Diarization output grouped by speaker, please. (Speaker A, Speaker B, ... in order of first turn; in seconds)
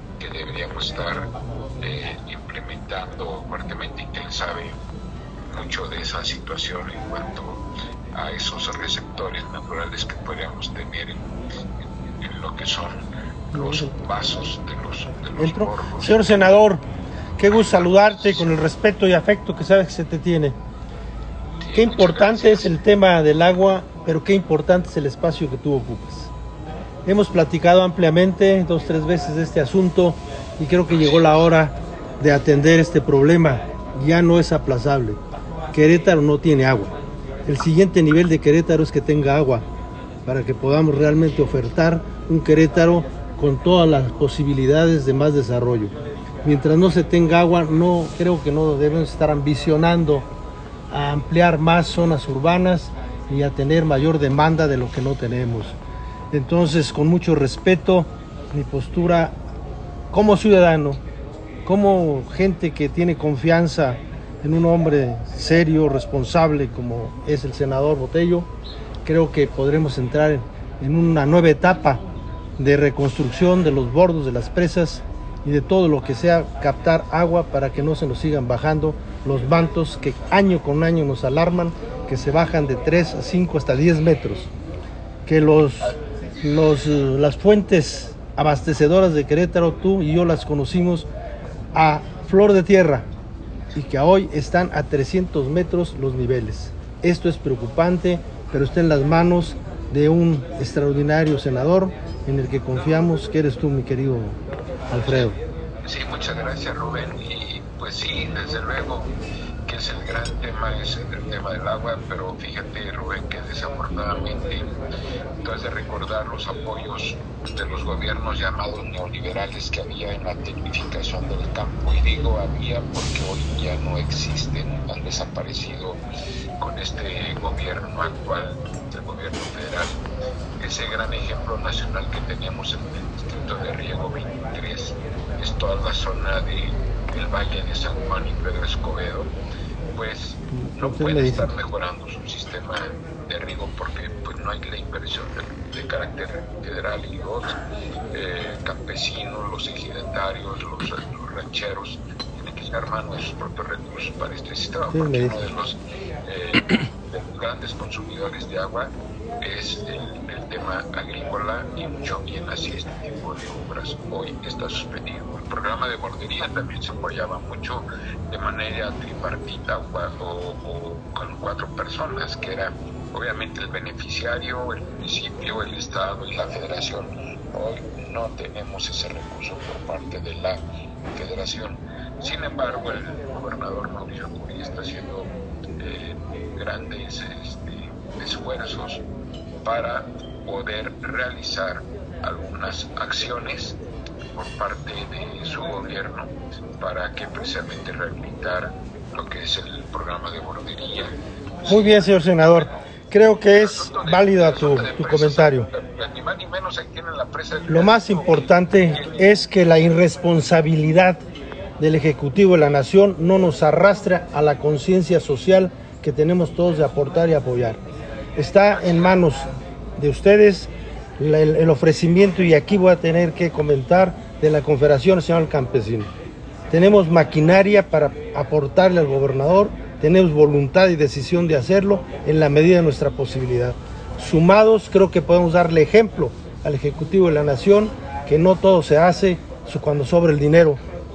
Speaker A: 0.2-4.8, 5.5-11.3, 12.2-16.5, 17.5-18.6, 21.6-22.7, 30.9-31.4, 105.8-109.1, 109.7-114.8, 115.4-126.0, 126.6-130.0, 130.6-139.3, 139.9-147.6, 148.1-180.6, 181.1-189.0, 189.6-193.8, 194.3-202.8, 203.5-209.2
Speaker B: 13.5-14.0, 15.4-16.8, 17.4-20.6, 21.7-26.3, 27.1-35.2, 35.7-36.9, 37.5-39.6, 40.2-50.2, 50.9-55.8, 56.3-59.4, 60.1-61.0, 61.6-68.5, 69.0-72.0, 72.6-84.5, 85.2-91.1, 91.7-93.1, 93.7-105.4, 140.5-141.5, 154.9-155.4, 201.7-205.7, 207.7-211.2, 211.8-217.8, 218.3-226.1, 226.7-240.8